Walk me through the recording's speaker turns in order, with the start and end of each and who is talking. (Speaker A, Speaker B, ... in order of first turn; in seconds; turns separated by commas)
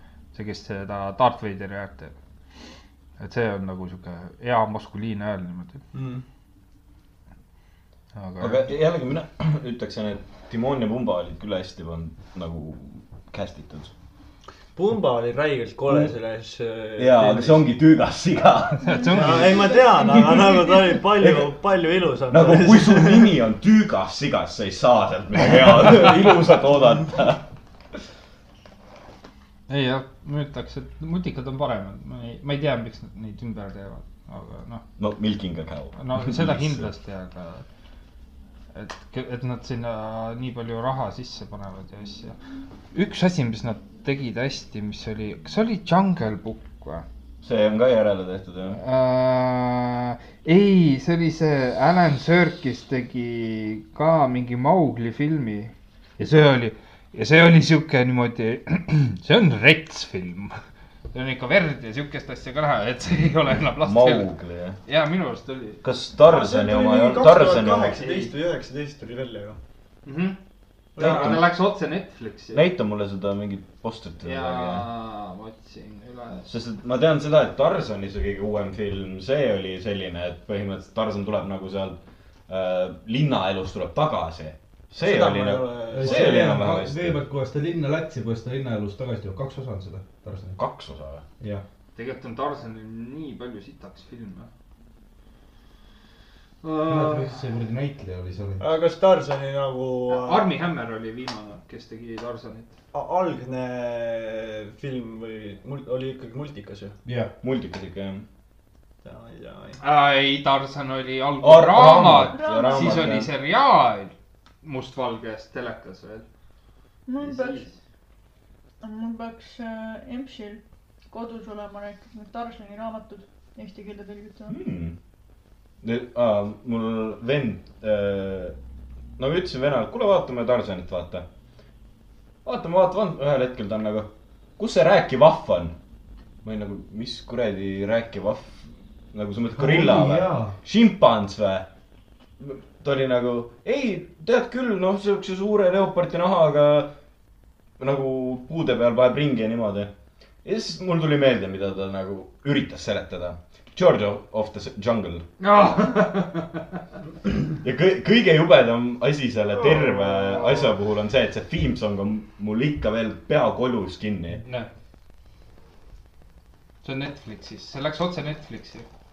Speaker A: 0.3-2.1, Speaker A: 3.2-5.8, Speaker B: 5.9-6.2, Speaker A: 8.2-8.7, Speaker C: 8.4-13.9, Speaker B: 14.8-17.7, Speaker C: 17.0-19.2, Speaker A: 18.8-19.8, Speaker D: 18.9-20.8, Speaker B: 19.1-23.3, Speaker C: 21.2-21.5, Speaker C: 22.3-27.4, Speaker A: 29.7-34.9, Speaker C: 35.0-36.9, Speaker A: 36.0-37.6, Speaker A: 38.7-42.4, Speaker A: 42.9-47.0, Speaker C: 47.4-48.8, Speaker A: 48.8-60.6, Speaker A: 61.1-64.3, Speaker C: 63.8-64.8, Speaker A: 64.9-65.8, Speaker C: 65.8-68.1, Speaker B: 66.2-69.6, Speaker A: 68.0-68.3, Speaker A: 70.1-70.4, Speaker B: 71.0-71.4, Speaker C: 71.0-71.4, Speaker A: 71.0-72.6, Speaker C: 72.5-74.8, Speaker A: 74.2-76.5, Speaker C: 76.5-87.2, Speaker B: 85.0-86.6, Speaker E: 85.9-90.6, Speaker C: 90.6-91.2, Speaker A: 92.0-94.5, Speaker A: 96.6-97.3, Speaker E: 96.9-98.7, Speaker B: 98.6-100.5, Speaker A: 100.1-102.7, Speaker B: 102.9-107.0, Speaker E: 107.0-107.3, Speaker C: 107.4-108.2, Speaker B: 109.0-109.8, Speaker A: 109.8-116.3, Speaker C: 111.4-113.3, Speaker D: 112.0-113.1, Speaker D: 117.1-117.7, Speaker A: 117.2-117.7, Speaker D: 118.8-124.6, Speaker C: 124.5-125.0, Speaker C: 125.8-128.6, Speaker C: 129.2-131.3, Speaker C: 132.4-135.8, Speaker C: 136.4-141.7, Speaker E: 139.5-140.6, Speaker C: 142.4-146.9, Speaker C: 147.8-149.9, Speaker C: 150.4-155.3, Speaker A: 155.4-156.7, Speaker C: 157.5-164.4, Speaker A: 160.1-160.7, Speaker A: 166.8-168.9